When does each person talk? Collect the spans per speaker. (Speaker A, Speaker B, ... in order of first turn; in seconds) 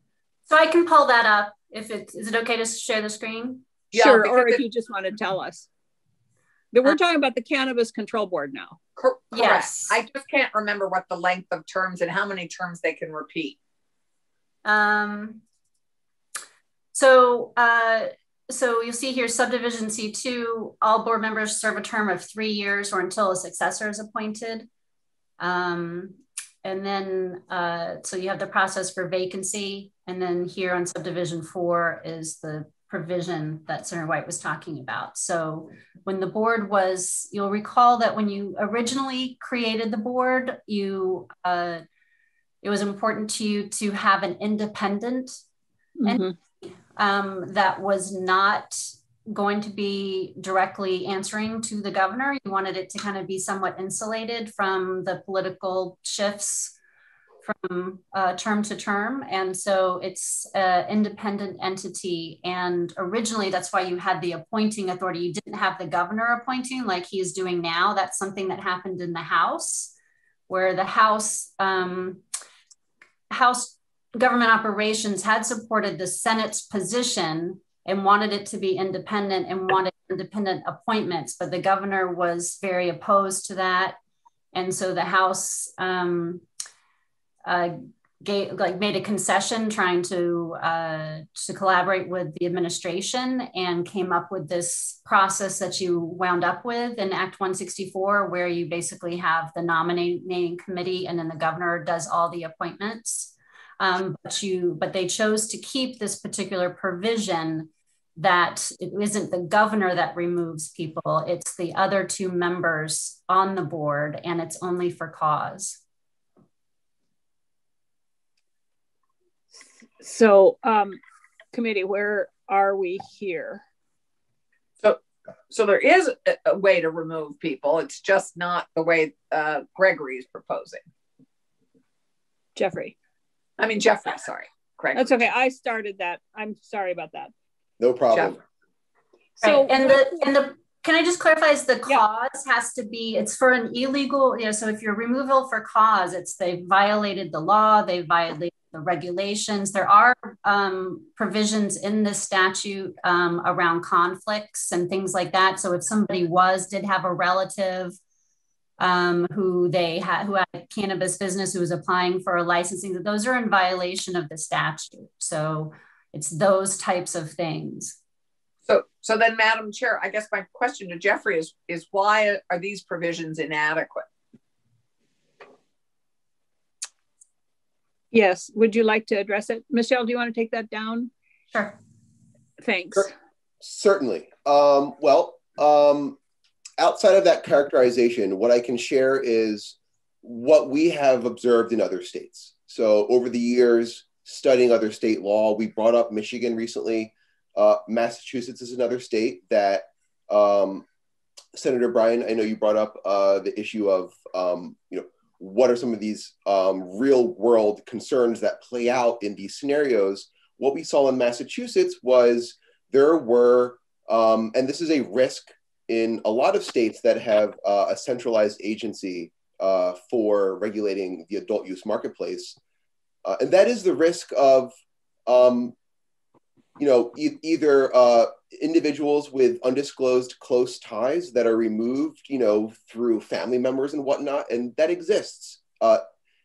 Speaker A: 0.5-3.7, 9.3-10.0, 14.7-15.4, 16.9-24.7, 25.4-41.8, 42.6-45.4, 46.0-56.8, 57.4-69.9, 70.5-72.2, 73.3-84.0, 84.5-86.4, 87.5-115.8, 139.4-158.0, 158.8-168.0, 181.5-181.8
Speaker B: 3.9-4.6, 9.0-13.6, 124.8-130.8, 133.6-135.3, 168.7-174.1
Speaker C: 4.0-5.7, 6.7-8.8, 46.0-46.3, 120.0-121.0, 121.5-123.6, 132.6-133.0, 134.9-137.3, 139.4-140.2, 178.1-181.1, 182.6-183.1
Speaker D: 137.8-138.4, 183.6-186.2, 186.8-200.9, 201.5-222.6, 223.2-224.8, 225.3-225.8, 226.8-236.0